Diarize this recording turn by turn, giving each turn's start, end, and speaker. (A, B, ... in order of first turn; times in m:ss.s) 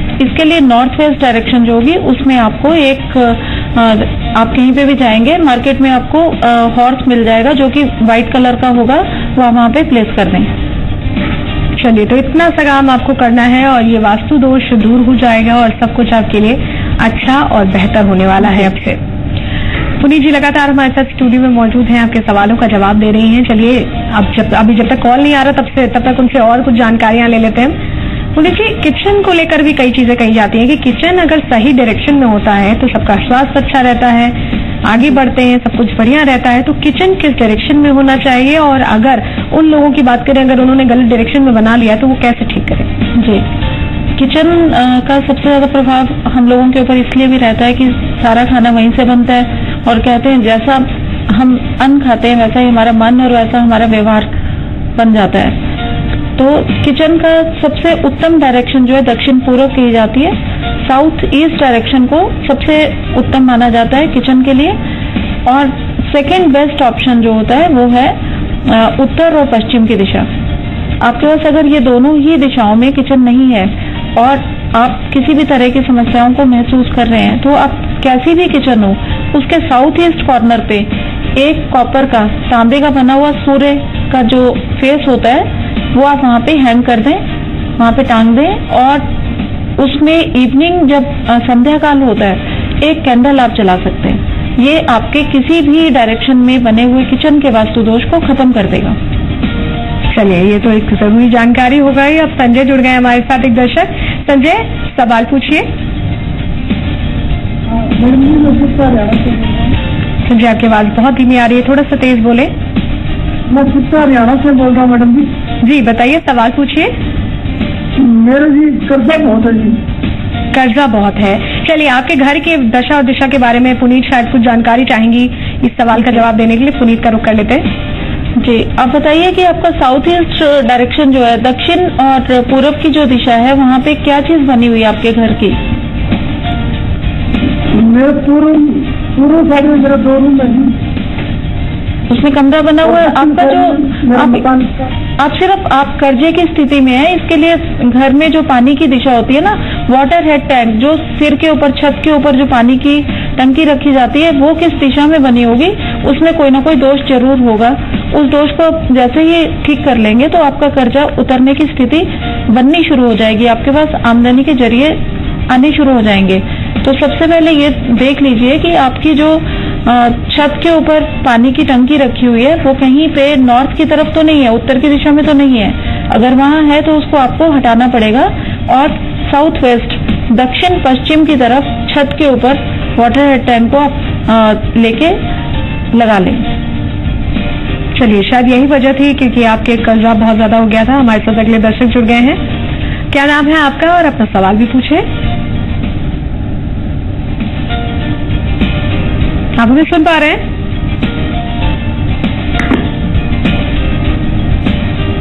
0:00.2-0:10.5 A
0:11.8-0:19.0 B
0:20.0-0:27.8 B
0:28.3-0:42.9 B
0:43.1-0:43.4 A
0:44.2-0:54.3 A
0:55.0-0:55.6 A
0:56.4-1:04.8 A
1:05.4-1:10.3 A
1:11.0-1:27.2 A
1:27.8-1:29.1 A
1:29.8-1:39.0 A
1:40.1-1:45.7 B
1:47.7-1:49.6 C
1:50.3-1:52.5 B
1:53.5-1:55.3 C
1:55.6-1:56.9 B
1:58.0-1:59.8 C
2:00.5-2:07.7 B
2:06.0-2:06.2 A
2:08.4-2:15.6 A
2:17.7-2:20.7 C
2:22.1-2:24.4 A
2:23.0-2:24.7 C
2:25.2-3:05.2 A
3:05.9-3:06.5 A
3:08.0-3:12.4 B
3:13.1-3:15.1 B
3:19.6-3:20.4 B